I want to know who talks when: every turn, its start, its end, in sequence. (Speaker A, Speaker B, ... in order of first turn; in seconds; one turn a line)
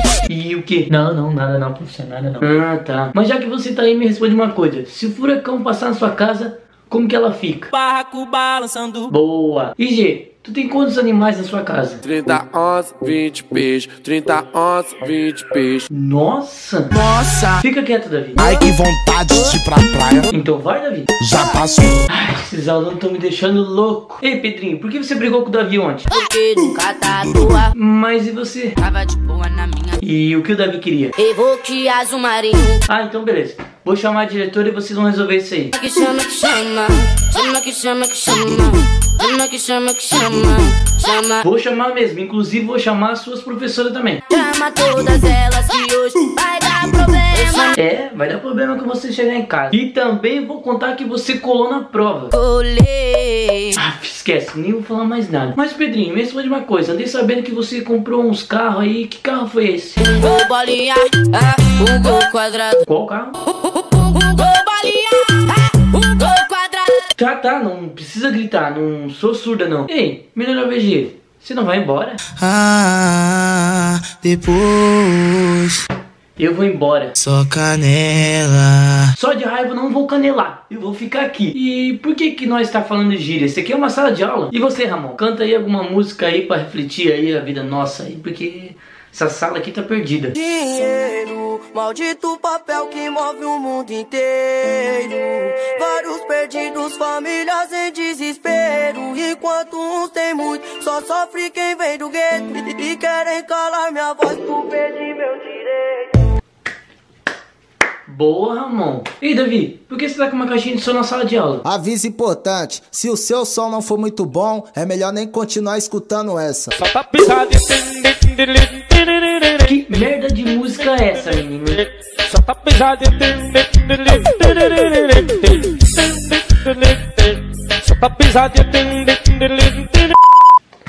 Speaker A: 0.2-7.7
Speaker A: 9.1-12.0
Speaker B: 12.0-15.9
Speaker A: 15.9-16.9
Speaker A: 17.6-18.4
Speaker C: 18.4-20.3
Speaker A: 20.3-21.1
Speaker C: 21.2-22.0
Speaker A: 22.1-26.1
Speaker D: 26.1-27.7
Speaker A: 27.7-28.7
Speaker D: 28.8-30.0
Speaker A: 30.0-31.1
Speaker D: 31.2-32.8
Speaker A: 32.9-35.7
Speaker D: 35.7-41.4
Speaker A: 41.4-44.2
Speaker D: 44.3-47.8
Speaker A: 47.8-52.3
Speaker D: 52.3-53.5
Speaker A: 53.8-60.0
Speaker D: 60.0-62.8
Speaker A: 62.9-63.3
Speaker D: 64.0-66.9
Speaker A: 67.2-72.2
Speaker E: 72.5-73.0
Speaker A: 76.4-77.1
Speaker E: 77.2-78.0
Speaker A: 79.2-90.3
Speaker E: 90.4-106.0
Speaker A: 108.1-111.6
Speaker F: 111.6-116.7
Speaker B: 117.0-117.7
Speaker A: 119.6-121.8
Speaker B: 122.3-123.5
Speaker B: 124.1-125.3
Speaker B: 128.0-129.3